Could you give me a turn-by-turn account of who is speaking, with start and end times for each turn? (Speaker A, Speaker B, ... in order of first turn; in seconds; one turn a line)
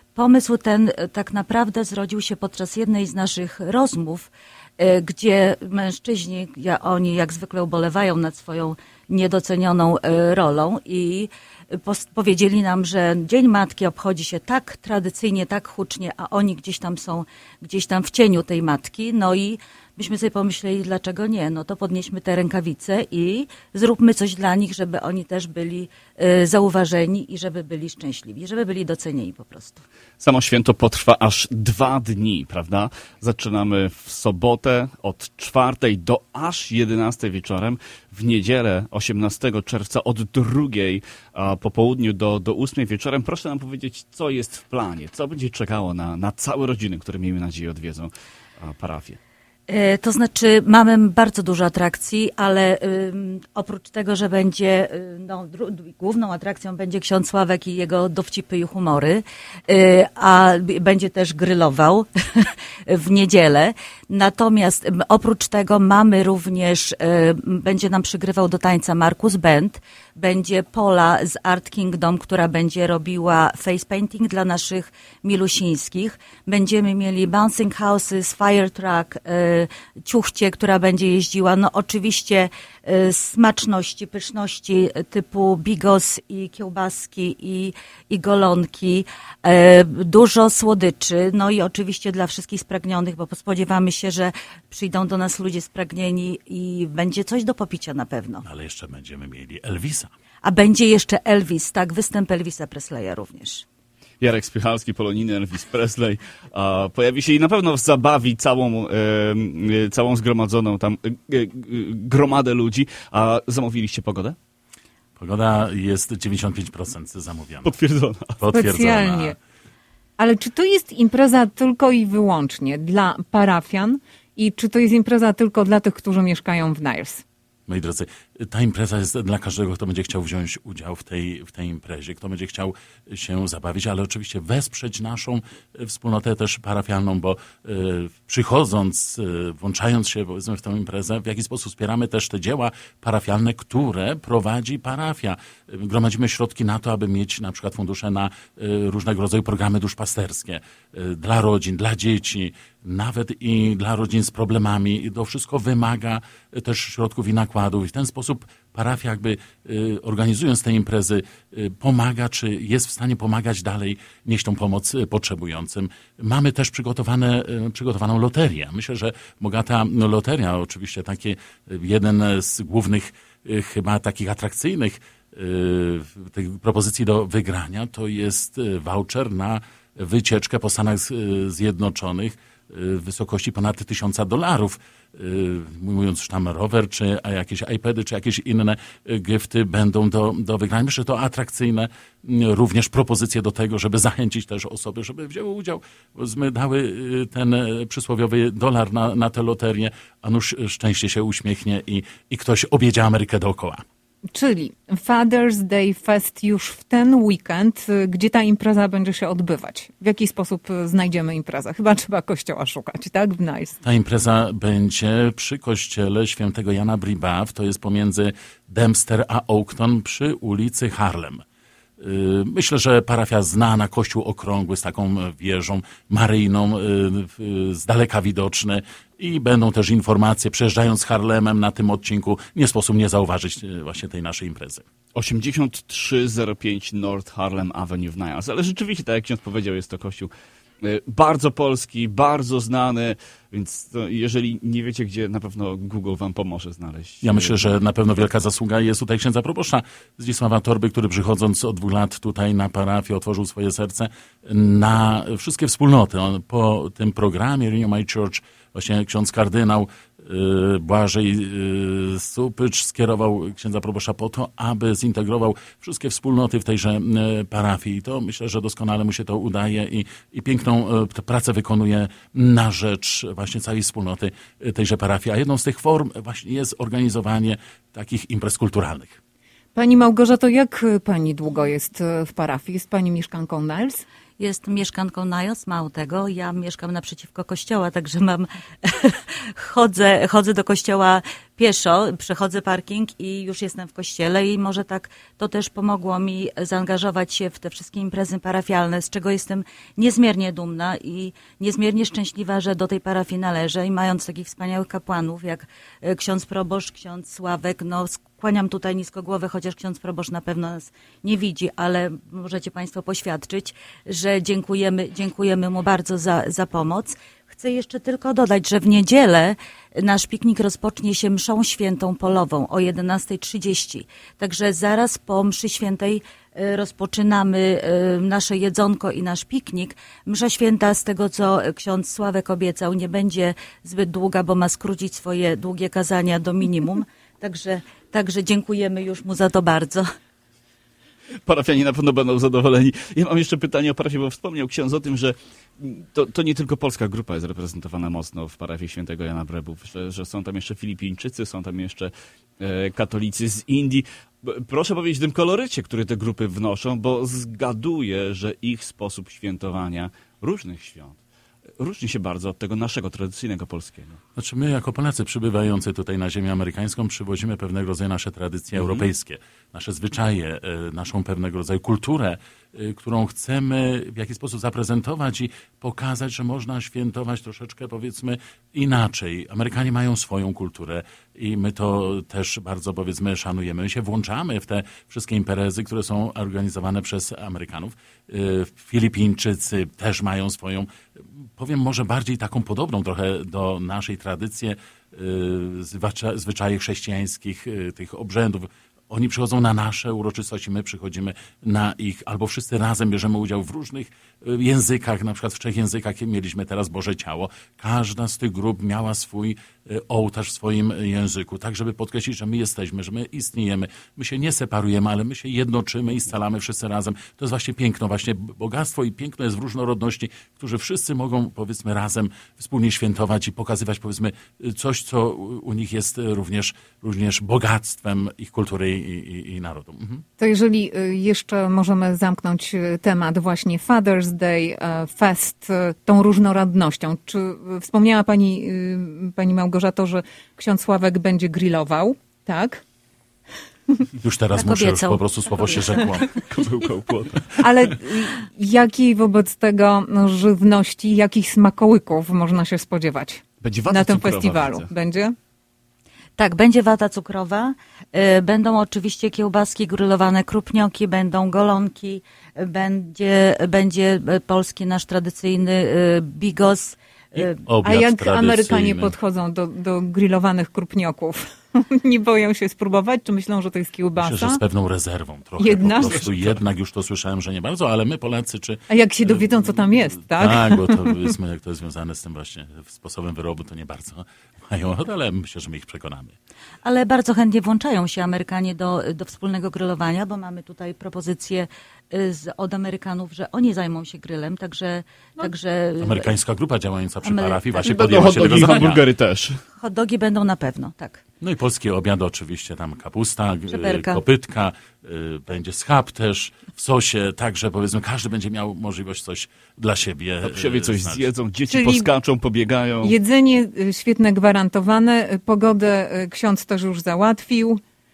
Speaker A: 0.1-29.8
Speaker B: 30.2-49.2
Speaker A: 49.7-98.4
Speaker C: 98.4-100.1
Speaker A: 100.4-103.6
Speaker B: 104.2-114.4
Speaker C: 115.2-117.7
Speaker B: 117.7-118.3
Speaker C: 118.4-119.3
Speaker D: 118.5-119.4
Speaker D: 120.2-127.2
Speaker C: 127.7-203.8
Speaker D: 204.3-213.8
Speaker C: 213.8-221.4
Speaker C: 222.0-234.8
Speaker B: 235.1-240.3
Speaker B: 240.8-247.6
Speaker C: 247.2-279.2
Speaker D: 279.7-284.0
Speaker A: 284.4-340.1
Speaker B: 341.4-361.2
Speaker B: 361.8-364.2
Speaker C: 364.4-390.9
Speaker B: 368.8-369.1
Speaker C: 391.6-430.2
Speaker D: 430.4-442.8
Speaker C: 444.2-446.2
Speaker A: 444.6-445.2
Speaker B: 446.3-447.6
Speaker D: 447.6-455.3
Speaker B: 453.6-454.9
Speaker A: 456.4-467.6
Speaker C: 467.3-469.1
Speaker D: 467.8-474.6
Speaker C: 474.2-486.3
Speaker D: 475.6-476.3
Speaker D: 478.9-481.2
Speaker A: 486.8-496.3
Speaker C: 496.0-499.0
Speaker A: 497.2-498.3
Speaker B: 497.8-499.6
Speaker A: 499.8-501.2
Speaker C: 501.4-511.3
Speaker A: 503.7-504.2
Speaker B: 510.4-513.1
Speaker D: 511.7-512.1
Speaker D: 513.0-517.8